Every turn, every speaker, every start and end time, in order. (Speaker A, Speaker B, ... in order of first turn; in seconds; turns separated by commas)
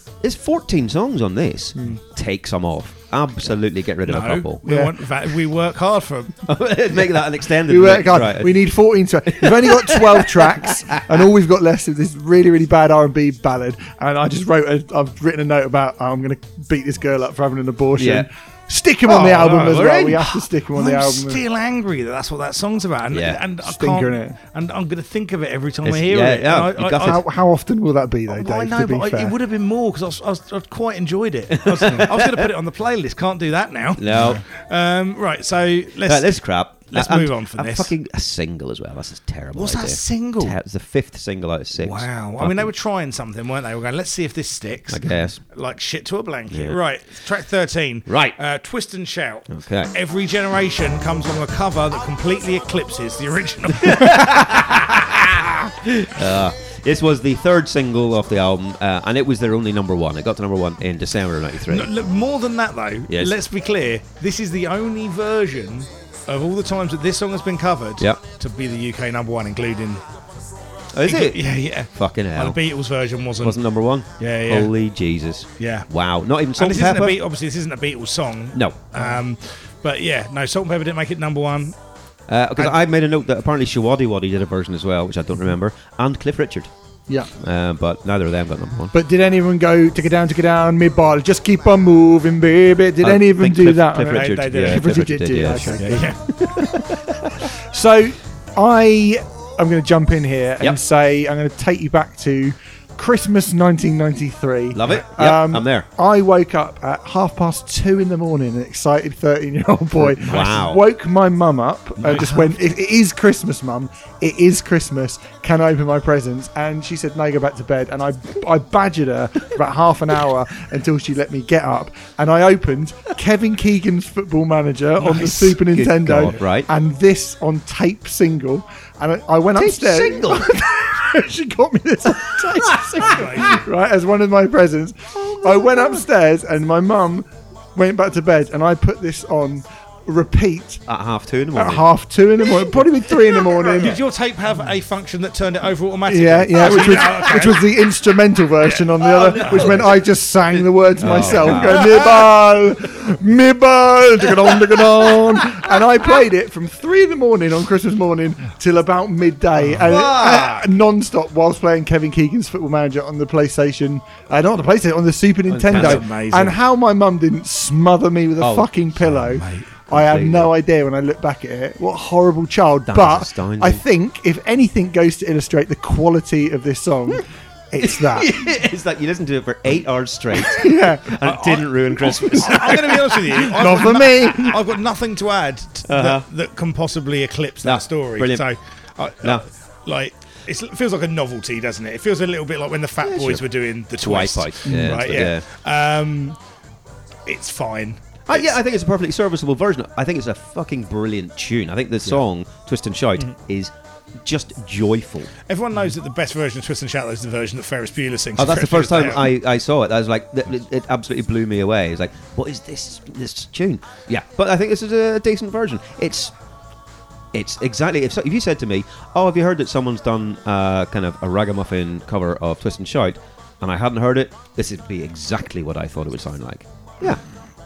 Speaker A: 0.2-4.6, Speaker B: 4.0-6.5, Speaker C: 4.7-4.9, Speaker A: 6.5-8.7, Speaker C: 7.7-21.4, Speaker A: 9.3-10.6, Speaker A: 18.0-18.3, Speaker B: 19.1-20.1, Speaker A: 19.1-20.3, Speaker B: 20.7-27.2, Speaker A: 23.1-23.4, Speaker C: 23.6-24.4, Speaker A: 25.9-27.2, Speaker C: 27.0-29.4, Speaker B: 28.3-36.3, Speaker A: 31.5-32.5, Speaker A: 34.0-34.4, Speaker A: 36.0-42.7, Speaker B: 36.9-37.9, Speaker B: 39.5-40.6, Speaker B: 41.8-54.7, Speaker A: 44.9-45.4, Speaker A: 46.5-46.8, Speaker A: 48.1-48.4, Speaker A: 49.5-49.9, Speaker A: 53.8-61.9, Speaker B: 61.7-70.0, Speaker A: 63.1-63.4, Speaker A: 70.9-72.6, Speaker B: 71.0-73.6, Speaker A: 73.4-77.2, Speaker B: 74.2-74.7, Speaker B: 75.6-75.9, Speaker B: 76.5-81.8, Speaker A: 78.5-79.0, Speaker A: 82.3-86.7, Speaker A: 87.4-89.0, Speaker C: 88.9-97.0, Speaker A: 93.0-97.3, Speaker B: 94.1-94.9, Speaker B: 95.8-96.4, Speaker C: 97.5-140.8, Speaker A: 104.7-105.9, Speaker A: 110.0-110.8, Speaker A: 112.0-112.4, Speaker A: 125.1-126.7, Speaker A: 129.6-130.7, Speaker A: 132.4-133.4, Speaker B: 133.0-133.6, Speaker A: 135.2-135.9, Speaker A: 140.9-141.9, Speaker C: 141.5-144.0, Speaker B: 143.7-147.9, Speaker C: 146.1-178.5, Speaker B: 148.6-149.9, Speaker A: 149.0-150.1, Speaker A: 151.0-152.3, Speaker B: 151.1-151.9, Speaker A: 154.4-155.8, Speaker B: 159.6-160.0, Speaker A: 159.8-160.6, Speaker A: 165.5-166.1, Speaker B: 165.7-166.6, Speaker A: 168.4-169.2, Speaker B: 169.2-169.7, Speaker A: 169.9-170.5, Speaker A: 172.9-173.8, Speaker A: 177.8-183.9, Speaker C: 180.4-181.2, Speaker B: 181.2-196.4, Speaker C: 182.0-184.6, Speaker A: 185.9-186.3, Speaker A: 187.6-188.5, Speaker A: 193.0-195.5, Speaker C: 194.7-194.9, Speaker B: 197.3-198.6, Speaker A: 198.3-205.3, Speaker B: 205.5-209.3, Speaker A: 208.4-216.3, Speaker A: 217.3-227.2